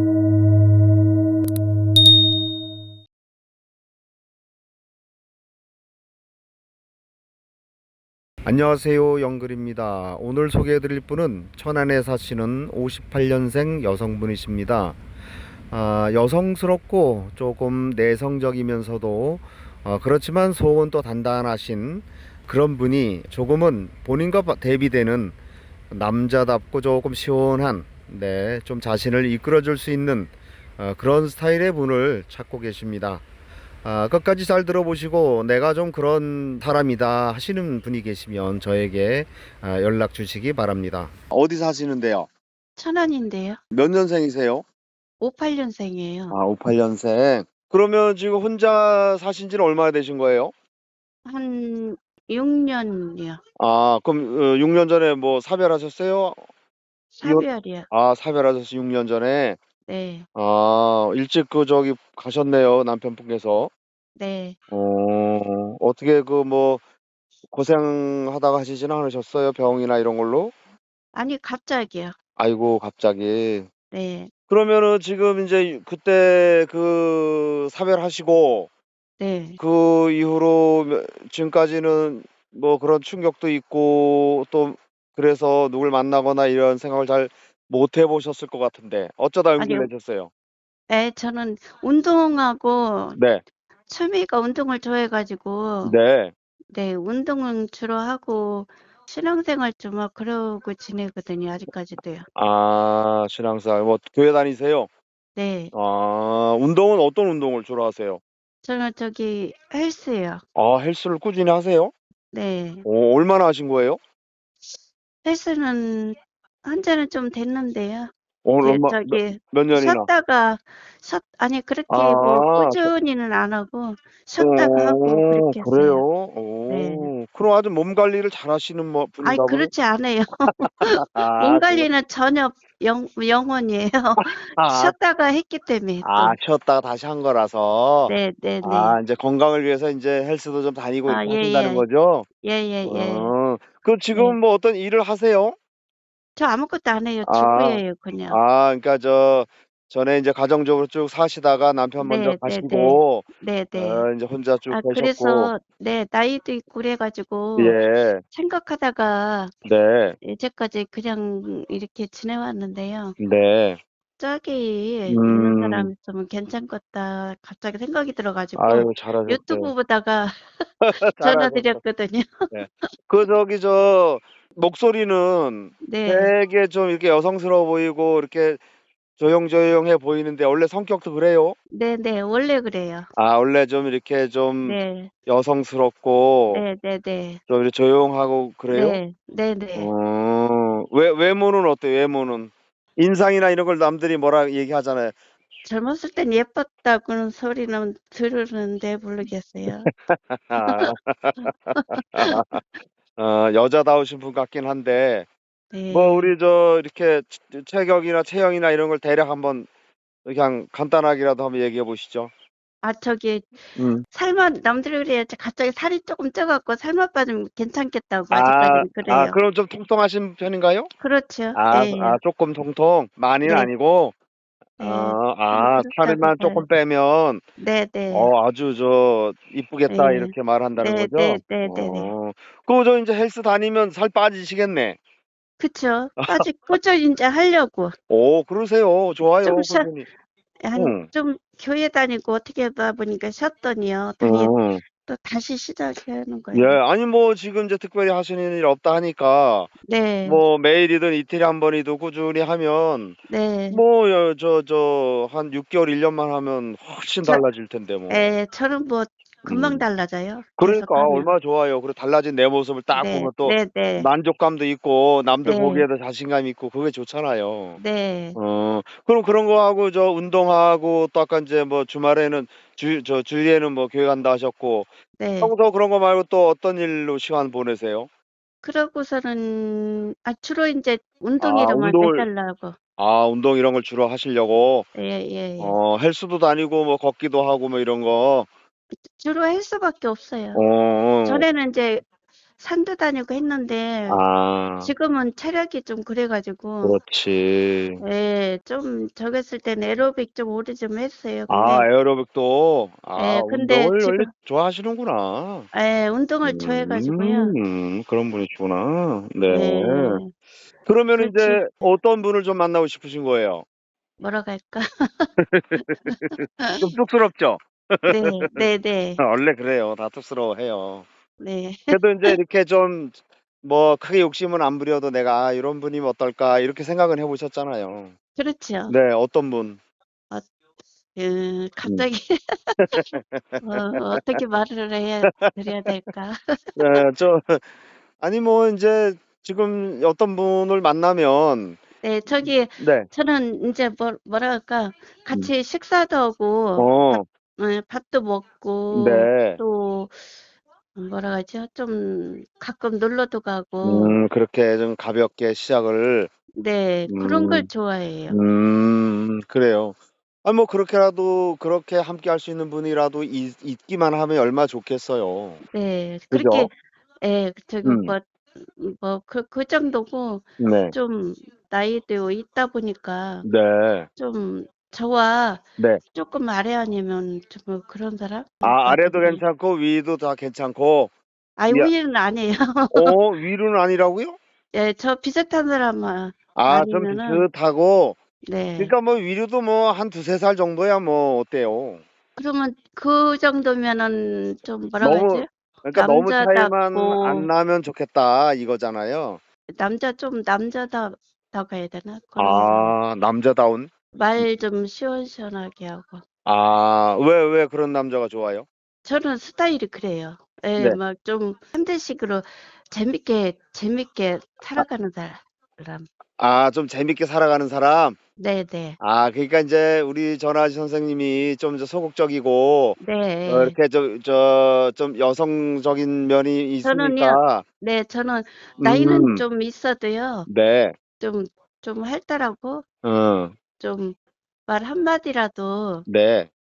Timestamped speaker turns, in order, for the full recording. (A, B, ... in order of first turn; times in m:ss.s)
0:08.4-0:15.0 A
0:15.7-0:25.4 A
0:25.9-0:33.2 A
0:33.8-0:42.3 A
0:42.8-0:43.6 B
0:43.7-0:44.6 A
0:45.2-0:46.4 B
0:46.3-0:50.5 A
0:51.2-0:53.4 B
0:53.6-0:56.4 A
0:57.1-0:57.9 B
0:57.2-0:59.6 A
0:59.9-1:00.2 B
1:00.3-1:03.7 A
1:04.2-1:04.6 B
1:04.7-1:06.8 A
1:07.5-1:10.5 A
1:11.1-1:12.1 B
1:12.4-1:13.7 A
1:13.9-1:14.3 B
1:14.5-1:18.7 A
1:19.2-1:19.6 B
1:19.6-1:30.3 A
1:29.6-1:29.9 B
1:30.9-1:33.2 B
1:33.2-1:33.4 A
1:33.9-1:35.9 B
1:35.8-1:36.3 A
1:36.7-1:42.2 B
1:42.3-1:44.9 A
1:45.4-1:45.7 B
1:45.7-1:48.2 A
1:48.6-1:50.4 B
1:50.5-1:51.9 A
1:52.3-1:52.8 B
1:52.8-1:54.0 A
1:55.2-2:06.0 B
1:58.4-2:00.1 A
2:01.9-2:02.9 A
2:04.4-2:09.7 A
2:06.7-2:07.1 B
2:09.2-2:16.4 B
2:10.8-2:11.9 A
2:14.2-2:14.9 A
2:16.0-2:22.3 A
2:18.1-2:19.0 B
2:21.0-2:21.9 B
2:22.4-2:23.3 B
2:22.8-2:25.6 A
2:26.4-2:28.4 B
2:27.2-2:35.5 A
2:32.0-2:34.0 B
2:34.7-2:37.8 B
2:37.6-2:38.2 A
2:38.3-2:39.5 B
2:39.6-2:40.2 A
2:40.2-2:43.2 B
2:43.2-2:43.8 A
2:44.2-2:52.5 B
2:45.1-2:45.9 A
2:48.6-2:49.7 A
2:50.8-2:51.8 A
2:52.5-2:58.6 A
2:55.8-2:56.3 B
2:59.2-3:01.6 A
3:01.7-3:03.1 B
3:03.2-3:06.6 A
3:04.6-3:05.1 B
3:06.5-3:07.4 B
3:07.5-3:09.0 A
3:08.7-3:09.9 B
3:09.7-3:15.1 A
3:15.6-3:19.9 B
3:19.7-3:22.6 A
3:20.6-3:22.6 B
3:23.2-3:25.2 A
3:25.7-3:26.3 B
3:25.9-3:29.7 A
3:30.2-3:32.3 A
3:32.8-3:39.4 B
3:33.8-3:34.0 A
3:38.3-3:40.9 A
3:41.0-3:42.2 B
3:41.5-3:44.1 A
3:43.4-3:43.7 B
3:44.8-3:46.6 B
3:44.8-3:47.4 A
3:47.6-3:48.3 B
3:48.1-3:55.0 A
3:49.9-3:52.1 B
3:55.6-3:57.9 B
3:56.2-3:56.4 A
3:58.1-4:00.1 A
3:59.4-3:59.9 B
4:00.6-4:04.5 B
4:00.7-4:01.1 A
4:04.2-4:04.8 A
4:05.0-4:06.8 B
4:06.5-4:09.7 A
4:09.9-4:10.4 B
4:10.2-4:13.2 A
4:13.3-4:13.8 B
4:13.7-4:18.3 A
4:18.1-4:21.3 B
4:19.5-4:19.8 A
4:20.6-4:27.8 A
4:22.9-4:24.1 B
4:25.4-4:25.9 B
4:27.8-4:28.4 B
4:28.4-4:34.9 A
4:35.2-4:35.5 B
4:35.4-4:38.1 A
4:38.6-4:42.8 B
4:41.4-4:42.3 A
4:43.0-4:44.9 A
4:45.0-4:45.8 B
4:45.6-4:48.5 A
4:49.1-4:50.6 B
4:50.5-4:51.4 A
4:51.2-4:52.0 B
4:52.6-4:54.2 B
4:54.1-4:54.9 A
4:54.8-4:57.0 B
4:56.8-4:58.0 A
4:58.0-5:01.8 B
5:01.5-5:05.7 A
5:03.2-5:04.3 B
5:05.7-5:07.5 B
5:06.4-5:10.2 A
5:09.5-5:10.3 B
5:10.8-5:13.6 A
5:11.2-5:11.8 B
5:14.2-5:16.9 B
5:15.4-5:18.7 A
5:18.1-5:19.2 B
5:19.2-5:21.1 A
5:21.4-5:22.4 B
5:21.9-5:28.1 A
5:28.4-5:28.9 B
5:28.9-5:29.8 A
5:31.1-5:33.0 B
5:32.8-5:34.3 A
5:33.6-5:36.6 B
5:35.2-5:35.9 A
5:36.8-5:37.6 A
5:38.2-5:41.8 A
5:42.0-5:50.1 B
5:42.4-5:43.1 A
5:46.8-5:47.2 A
5:48.9-5:49.6 A
5:50.9-5:54.2 B
5:53.8-5:56.3 A
5:56.6-5:58.4 B
5:57.1-5:57.7 A
5:58.3-6:05.6 A
6:05.7-6:13.5 B
6:06.3-6:06.7 A
6:07.8-6:08.1 A
6:10.6-6:11.0 A
6:13.4-6:14.1 A
6:14.2-6:15.6 B
6:16.1-6:19.4 B
6:18.6-6:21.1 A
6:21.6-6:23.2 B
6:22.9-6:24.4 A
6:24.7-6:27.4 B
6:26.6-6:28.2 A
6:28.4-6:28.9 B
6:28.8-6:32.0 A
6:32.4-6:37.5 B
6:35.0-6:39.4 A
6:39.8-6:43.0 B
6:42.4-6:44.4 A
6:44.1-6:46.2 B
6:46.4-6:48.6 A
6:49.0-6:56.0 B
6:56.4-6:58.2 A
6:58.4-6:59.0 B
6:59.0-7:07.6 A
7:03.0-7:03.8 B
7:06.8-7:10.5 B
7:08.8-7:09.4 A
7:10.5-7:11.0 A
7:11.2-7:12.8 B
7:13.0-7:13.5 A
7:13.8-7:16.0 B
7:16.1-7:16.5 A